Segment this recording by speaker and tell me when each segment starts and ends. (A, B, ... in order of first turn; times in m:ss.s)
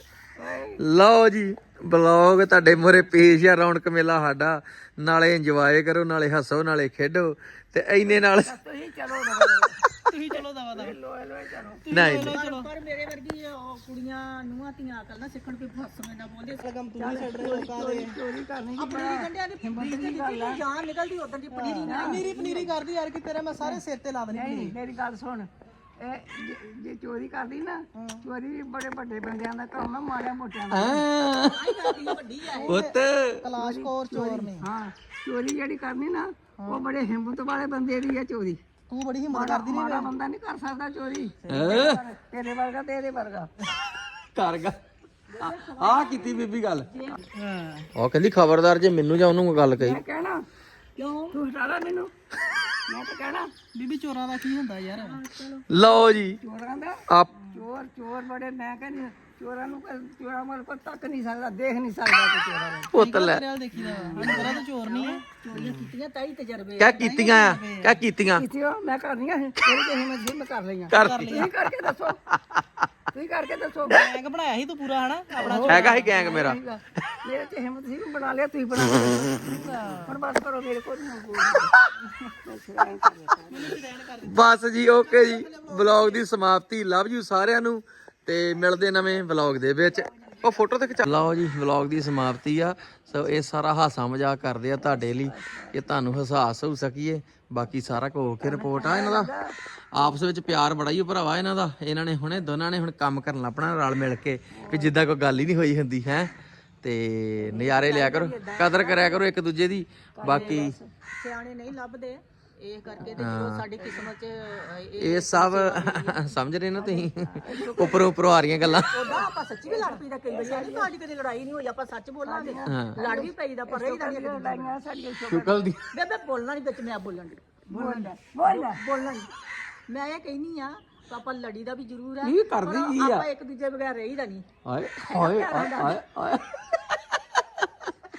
0:00.4-0:00.8 A
0:00.8-0:08.5 B
0:08.0-0:09.8 A
0:10.0-0:10.9 C
0:10.3-0:11.8 A
0:11.8-0:12.7 C
0:11.9-0:12.4 B
0:12.1-0:16.7 D
0:16.6-0:18.1 C
0:17.0-0:20.6 A
0:18.8-0:22.7 D
0:21.5-0:24.7 C
0:21.8-0:22.4 A
0:23.6-0:31.2 A
0:28.0-0:28.2 C
0:30.7-0:32.1 B
0:31.4-0:32.8 D
0:32.5-0:34.7 C
0:32.6-0:33.4 B
0:33.5-0:38.6 A
0:36.6-0:36.8 C
0:38.9-0:40.1 C
0:39.3-0:43.5 A
0:41.5-0:42.0 B
0:41.5-0:41.7 C
0:44.3-0:44.8 B
0:45.3-0:47.2 D
0:45.4-0:46.9 B
0:47.3-0:47.9 C
0:48.0-0:50.0 B
0:49.8-0:50.4 A
0:51.0-0:51.4 D
0:51.3-0:52.1 A
0:52.9-0:53.5 A
0:53.7-0:55.2 C
0:54.9-0:56.0 D
0:55.7-0:56.4 B
0:56.3-1:02.9 A
0:57.1-0:57.3 B
1:02.9-1:03.4 B
1:02.9-1:05.2 C
1:03.7-1:04.5 A
1:04.0-1:07.0 D
1:05.5-1:05.8 B
1:06.8-1:08.4 B
1:06.9-1:08.0 C
1:08.3-1:12.2 A
1:10.9-1:11.5 B
1:10.9-1:11.5 C
1:13.1-1:14.0 A
1:13.9-1:16.2 C
1:15.4-1:23.7 A
1:15.6-1:16.6 B
1:19.5-1:20.2 C
1:23.5-1:24.4 C
1:24.2-1:39.3 B
1:24.9-1:26.2 D
1:30.0-1:30.9 A
1:34.8-1:35.9 A
1:38.4-1:39.6 A
1:39.9-1:50.7 B
1:44.5-1:45.0 A
1:47.4-1:49.3 D
1:50.1-1:50.9 A
1:50.2-1:56.2 D
1:53.2-1:53.6 B
1:55.0-1:58.9 B
1:56.7-1:58.3 A
1:58.6-2:04.8 D
1:58.9-2:00.9 A
2:02.2-2:05.6 A
2:02.7-2:03.0 B
2:05.2-2:05.8 B
2:05.9-2:09.3 D
2:07.7-2:08.8 A
2:09.9-2:14.4 D
2:12.2-2:13.2 B
2:14.6-2:17.2 B
2:15.1-2:16.0 D